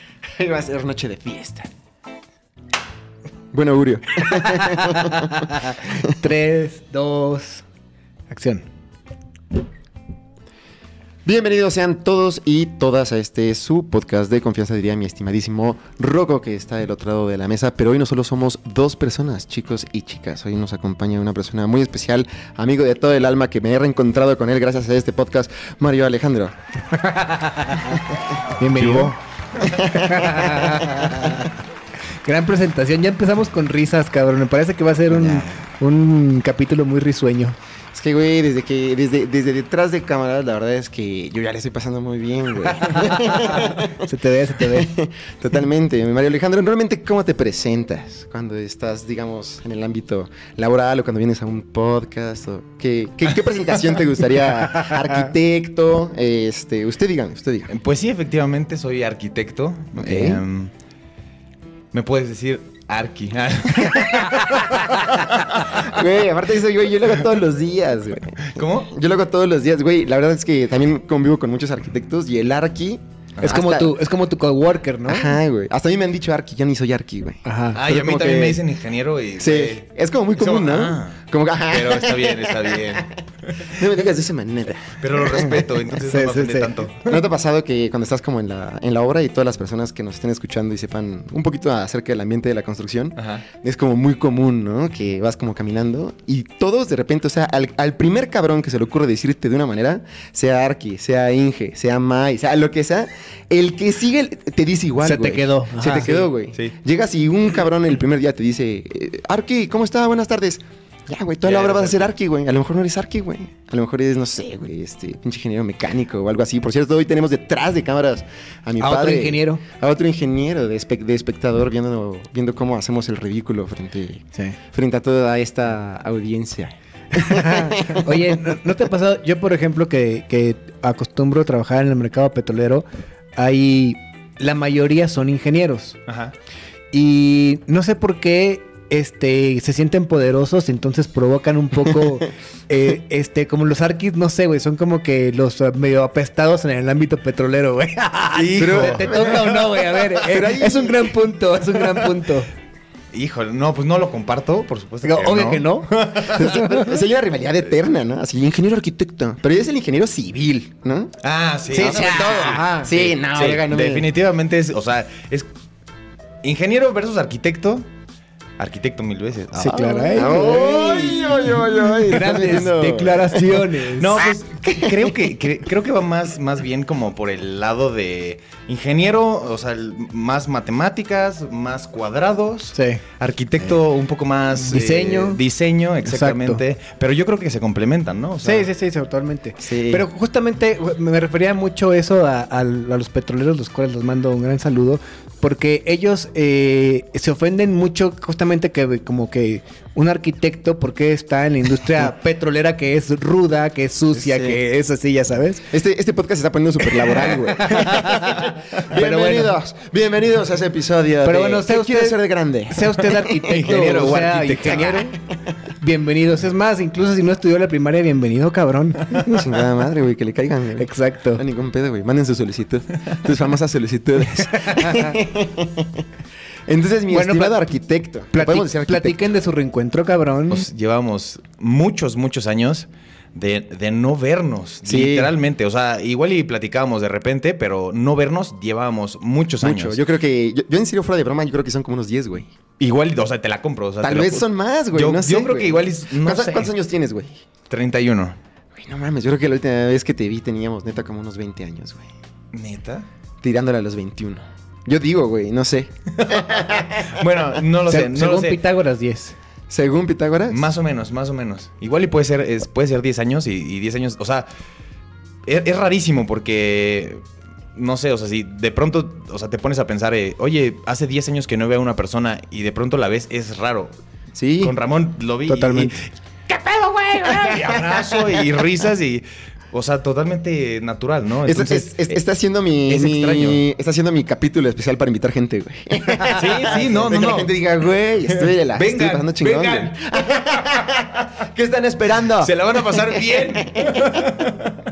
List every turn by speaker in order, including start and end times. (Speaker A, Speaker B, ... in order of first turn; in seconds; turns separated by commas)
Speaker A: 0.3-1.7, Speaker A: 3.5-5.5, Speaker B: 4.2-7.7, Speaker B: 8.3-8.7, Speaker A: 11.2-26.6, Speaker B: 26.9-28.0, Speaker B: 28.6-29.2, Speaker A: 28.8-31.5, Speaker B: 29.8-31.5, Speaker B: 32.2-37.6, Speaker A: 35.1-35.6, Speaker A: 37.9-44.0, Speaker B: 43.7-44.9, Speaker A: 44.6-57.7, Speaker C: 57.7-60.7, Speaker A: 60.0-60.4, Speaker C: 61.9-65.9, Speaker A: 64.1-74.0, Speaker C: 68.5-68.9, Speaker B: 73.4-75.4, Speaker A: 75.1-78.6, Speaker B: 77.4-77.8, Speaker C: 77.7-83.8, Speaker A: 79.4-83.0, Speaker A: 83.7-85.7, Speaker C: 85.0-87.2, Speaker B: 86.0-86.7, Speaker A: 87.0-128.2, Speaker C: 93.2-93.5, Speaker B: 105.0-106.3, Speaker C: 111.4-112.1, Speaker B: 118.8-119.6, Speaker B: 127.2-132.9, Speaker B: 133.4-136.0, Speaker C: 136.1-136.3, Speaker B: 136.9-152.5, Speaker C: 148.3-149.3, Speaker A: 148.6-151.1, Speaker C: 153.1-156.6, Speaker B: 155.0-156.8, Speaker A: 156.2-161.2, Speaker C: 161.2-165.5, Speaker A: 161.7-164.1, Speaker B: 161.7-163.1, Speaker C: 166.4-167.9, Speaker C: 168.6-170.4, Speaker B: 169.6-171.3, Speaker A: 170.1-173.6, Speaker B: 172.1-174.2, Speaker C: 174.0-188.7, Speaker A: 174.2-175.1, Speaker B: 182.7-183.0, Speaker B: 184.6-185.4, Speaker B: 186.1-186.6, Speaker B: 188.4-205.7, Speaker A: 189.6-190.1, Speaker A: 204.2-204.6, Speaker A: 205.7-215.1, Speaker B: 207.6-209.6, Speaker B: 211.2-215.2, Speaker C: 213.5-215.0, Speaker B: 215.8-219.4, Speaker A: 219.3-226.1, Speaker B: 220.8-221.4, Speaker B: 224.6-225.1, Speaker A: 226.7-229.2, Speaker B: 227.1-227.6, Speaker B: 228.3-230.7, Speaker C: 230.5-240.0, Speaker A: 234.8-235.3, Speaker A: 239.6-242.5, Speaker C: 242.8-246.7, Speaker A: 244.0-247.4, Speaker C: 247.7-248.4, Speaker A: 248.8-252.1, Speaker C: 252.5-253.1, Speaker A: 253.4-257.3, Speaker C: 256.2-258.6, Speaker B: 257.9-259.4, Speaker A: 259.7-260.7, Speaker C: 260.5-264.5, Speaker C: 265.5-267.2, Speaker C: 267.8-273.9, Speaker A: 274.4-274.7, Speaker C: 274.6-282.2, Speaker B: 275.5-276.0, Speaker A: 277.2-278.4, Speaker A: 281.4-293.2, Speaker C: 282.9-283.6, Speaker C: 286.3-287.5, Speaker C: 288.5-289.9, Speaker C: 292.4-294.8